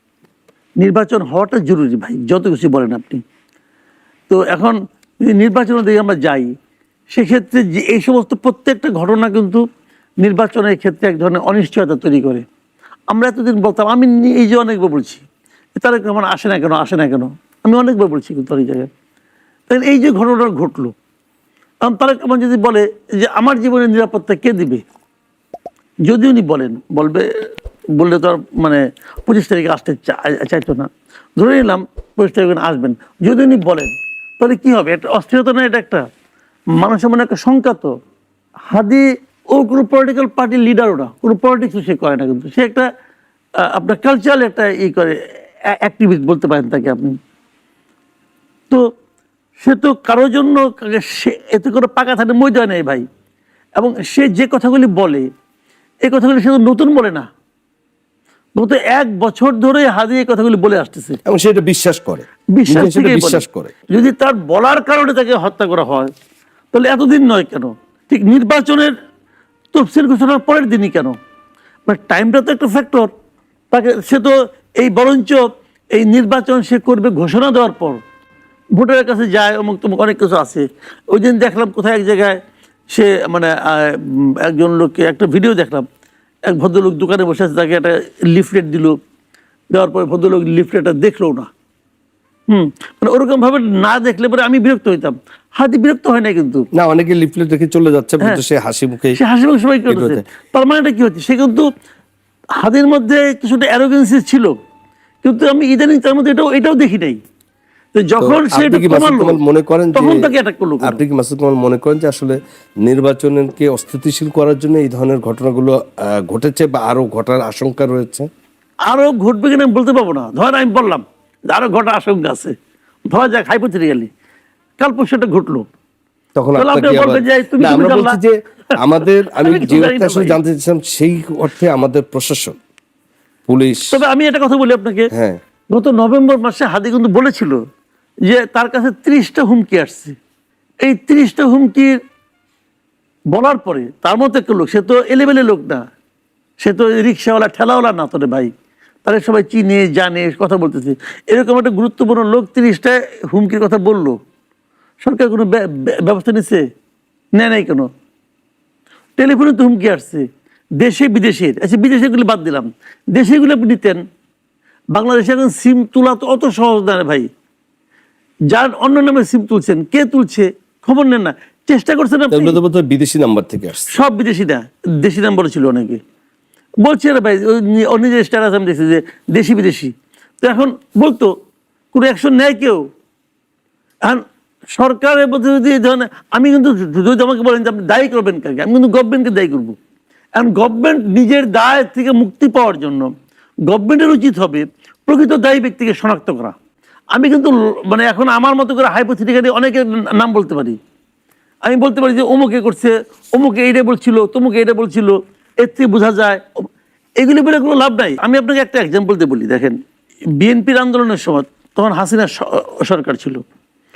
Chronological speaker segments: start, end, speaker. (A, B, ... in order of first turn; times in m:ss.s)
0:00.8-0:03.2 A
0:04.3-0:06.5 A
0:07.1-0:09.6 A
0:10.2-0:12.4 A
0:13.1-0:15.2 A
0:15.8-0:18.9 A
0:19.7-0:20.9 A
0:21.8-0:24.8 A
0:26.1-0:27.3 A
0:28.0-0:36.0 A
0:36.8-0:37.9 A
0:38.7-0:42.9 A
0:43.6-0:45.2 A
0:45.7-0:47.1 A
0:49.6-0:53.0 A
0:53.8-0:55.3 A
0:56.0-0:57.3 A
0:58.6-1:01.2 A
1:01.2-1:03.7 B
1:02.5-1:06.1 A
1:06.7-1:08.9 A
1:09.7-1:11.2 A
1:11.8-1:13.1 A
1:13.7-1:18.0 A
1:18.7-1:22.4 A
1:22.9-1:25.9 A
1:26.5-1:29.0 A
1:29.7-1:31.5 A
1:32.5-1:36.6 A
1:36.7-1:39.2 B
1:39.2-1:41.7 A
1:39.9-1:40.2 B
1:42.6-1:44.6 A
1:45.2-1:47.2 A
1:47.9-1:49.4 A
1:48.2-1:50.3 B
1:49.9-1:51.0 A
1:50.8-1:58.3 B
1:58.9-2:02.5 A
2:03.1-2:04.1 A
2:04.8-2:05.6 A
2:06.4-2:12.6 B
2:06.6-2:08.2 A
2:09.4-2:10.4 A
2:13.5-2:14.0 B
2:13.9-2:15.1 A
2:15.1-2:15.4 B
2:15.7-2:17.6 A
2:18.2-2:20.2 A
2:20.8-2:22.0 A
2:23.3-2:25.8 A
2:26.6-2:28.5 A
2:29.0-2:34.2 A
2:35.0-2:36.6 A
2:37.4-2:37.9 A
2:39.2-2:40.3 A
2:40.8-2:44.0 A
2:44.9-2:47.3 A
2:48.5-2:52.6 A
2:52.3-2:54.0 B
2:53.9-2:56.0 A
2:56.8-3:01.3 A
3:01.9-3:02.8 A
3:04.7-3:09.8 A
3:10.4-3:13.1 A
3:13.7-3:16.5 A
3:17.1-3:20.8 A
3:21.6-3:26.4 A
3:27.2-3:29.8 A
3:30.4-3:33.4 A